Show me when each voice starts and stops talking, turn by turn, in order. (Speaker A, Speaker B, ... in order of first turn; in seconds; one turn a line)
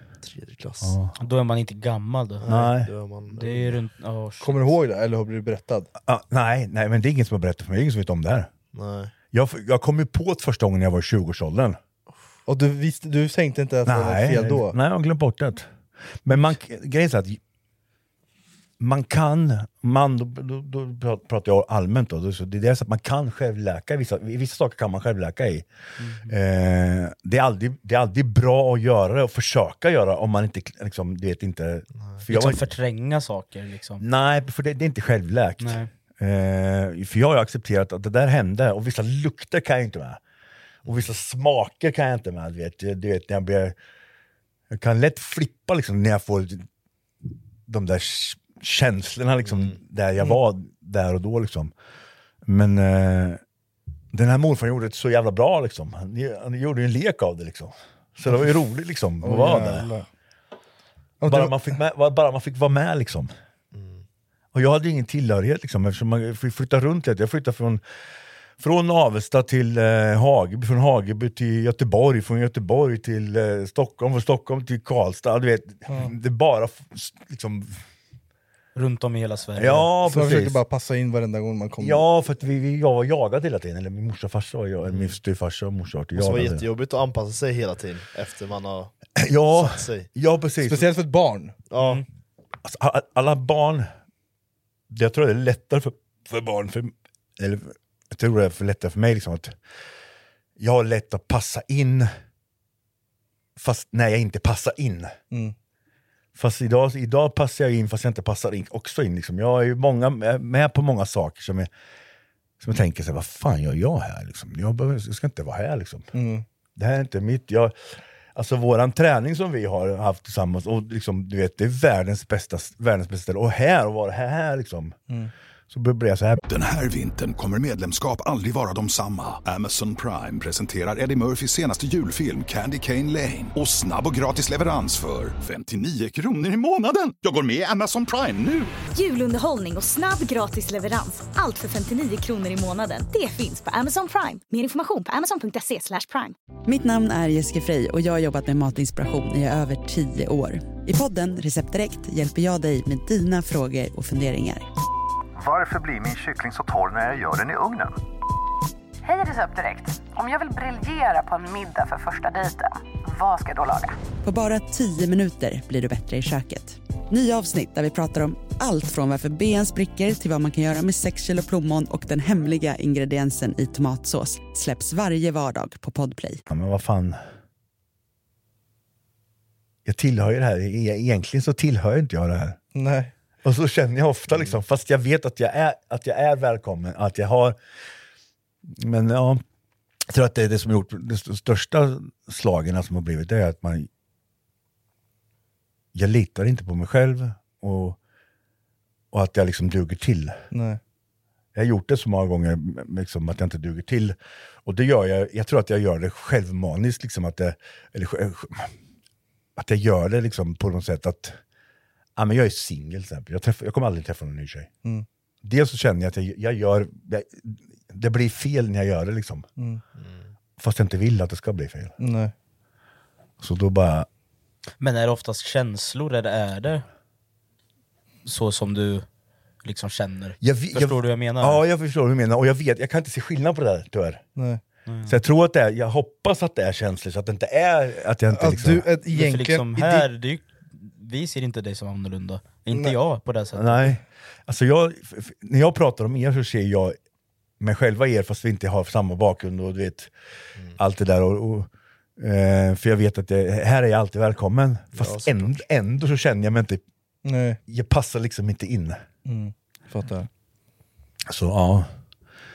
Speaker A: 0.2-1.0
Speaker B: 0.8-1.1
Speaker C: 1.2-2.4
Speaker A: 2.4-3.8
Speaker B: 2.5-2.9
Speaker C: 3.4-4.7
Speaker D: 4.4-5.9
Speaker B: 6.0-8.5
Speaker A: 8.7-9.1
Speaker B: 9.3-11.8
Speaker D: 12.5-14.8
Speaker B: 13.9-15.7
Speaker B: 16.2-17.4
Speaker B: 18.8-25.7
Speaker C: 26.0-26.3
Speaker B: 26.3-32.6
Speaker C: 32.3-34.0
Speaker B: 34.0-40.2
Speaker C: 35.6-35.9
Speaker B: 40.9-43.8
Speaker B: 44.7-46.7
Speaker B: 47.7-51.7
Speaker B: 52.5-53.4
Speaker B: 54.1-59.9
Speaker D: 59.2-60.1
Speaker D: 61.2-61.7
Speaker B: 61.3-63.3
Speaker A: 63.7-64.0
Speaker B: 64.5-67.8
Speaker B: 68.6-77.8
Speaker C: 78.8-79.9
Speaker B: 79.6-80.6
Speaker D: 80.1-82.0
Speaker B: 81.8-86.7
Speaker A: 84.9-85.2
Speaker A: 86.2-88.9
Speaker B: 89.2-90.9
Speaker A: 89.5-90.1
Speaker D: 90.6-91.5
Speaker A: 91.7-92.0
Speaker C: 91.8-92.0
Speaker B: 92.6-93.9
Speaker B: 94.9-99.5
Speaker B: 100.6-102.1
Speaker B: 103.6-105.2
Speaker B: 106.4-111.7
Speaker B: 112.6-116.1
Speaker D: 116.1-116.5
Speaker B: 116.8-117.7
Speaker B: 118.3-125.0
Speaker B: 125.7-126.4
Speaker E: 126.5-138.7
Speaker F: 138.9-146.3
Speaker G: 146.7-154.7
Speaker H: 155.4-157.9
Speaker I: 159.1-163.9
Speaker G: 164.2-176.4
Speaker B: 176.5-177.2
Speaker B: 179.8-182.6
Speaker D: 182.8-183.1
Speaker B: 183.4-187.6
Speaker B: 188.7-189.4
Speaker B: 190.1-193.9
Speaker B: 195.9-198.0
Speaker B: 199.1-200.4
Speaker D: 200.5-200.8
Speaker B: 201.6-208.7
Speaker B: 209.6-211.4
Speaker B: 212.2-214.7
Speaker B: 215.4-219.5
Speaker D: 219.6-219.8
Speaker A: 220.0-220.3
Speaker B: 220.6-221.9
Speaker D: 222.0-222.3
Speaker B: 223.4-224.1
Speaker C: 224.8-226.8
Speaker C: 228.2-229.1
Speaker C: 229.6-231.6
Speaker B: 230.4-234.2
Speaker D: 234.4-234.6
Speaker C: 234.9-235.2
Speaker B: 235.1-238.8
Speaker D: 238.3-240.1
Speaker C: 239.1-244.0
Speaker B: 243.5-247.0
Speaker B: 247.6-250.1
Speaker B: 250.8-256.8
Speaker A: 254.9-255.5
Speaker D: 257.2-257.6
Speaker B: 257.7-259.0
Speaker D: 259.2-260.3
Speaker B: 261.3-261.9